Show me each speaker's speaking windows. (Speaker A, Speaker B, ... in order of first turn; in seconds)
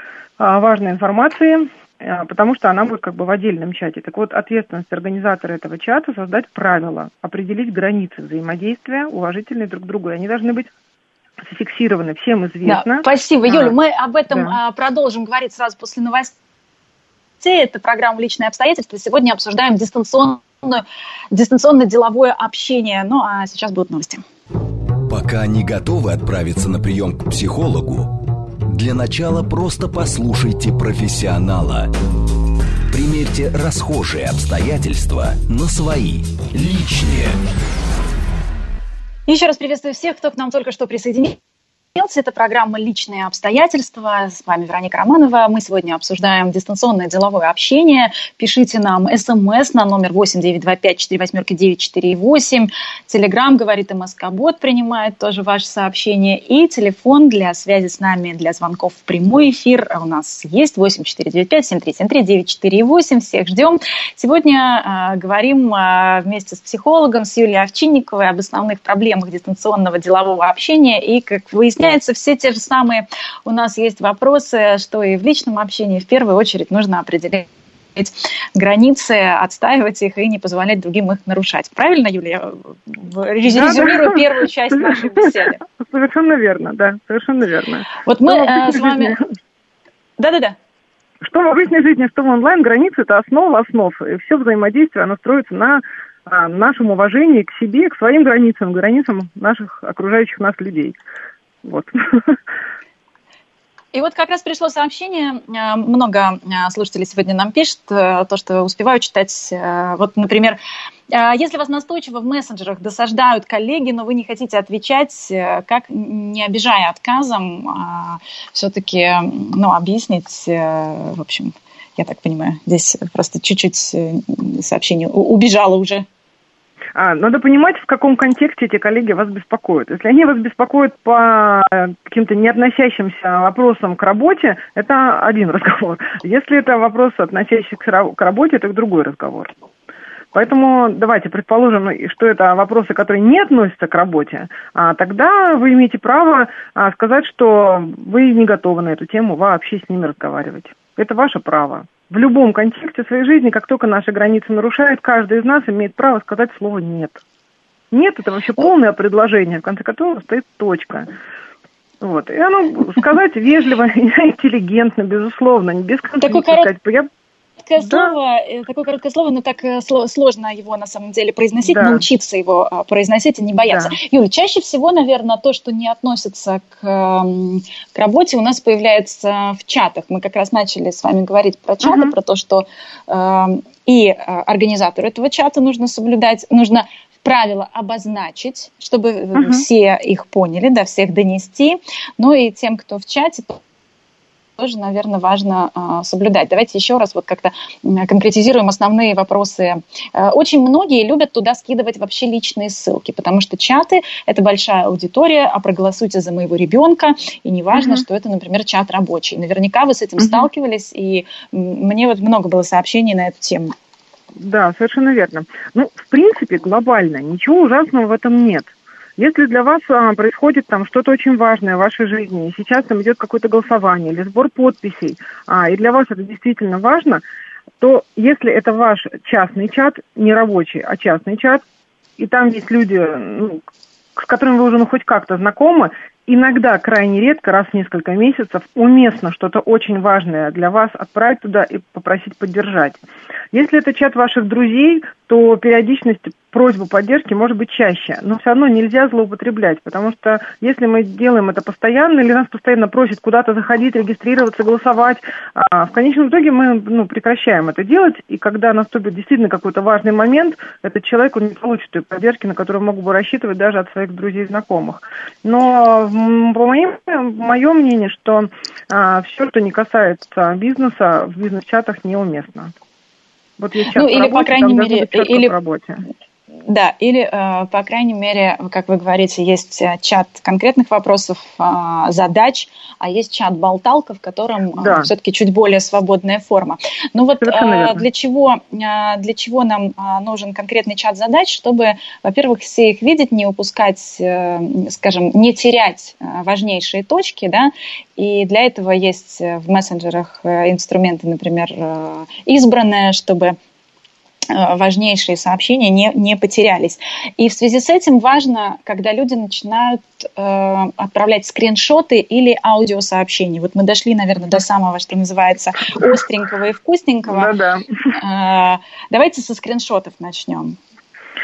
Speaker A: 0.4-10.7, 11.5-13.8, 14.3-14.6, 83.5-89.2, 91.2-101.0, 101.6-102.4, 127.0-139.5, 140.3-157.2, 157.9-161.1, 162.0-167.1, 167.8-168.1, 171.6-172.0, 173.7-173.9, 181.8-182.1, 189.3-189.6, 207.7-208.0, 210.2-210.5, 214.3-227.2, 227.8-231.6, 232.2-233.6, 234.2-243.0, 243.5-272.7, 273.6-276.0, 284.8-285.1, 287.4-288.1, 317.3-317.9
Speaker B: 12.6-16.4, 17.4-24.2, 39.3-41.4, 42.0-85.6, 88.0-89.2, 90.2-90.5, 103.9-110.6, 111.1-126.0, 166.2-166.7, 167.6-193.6, 194.6-213.7, 273.9-275.5, 276.6-303.6, 304.5-317.5, 318.1-320.8
Speaker C: 25.1-31.9, 32.9-37.4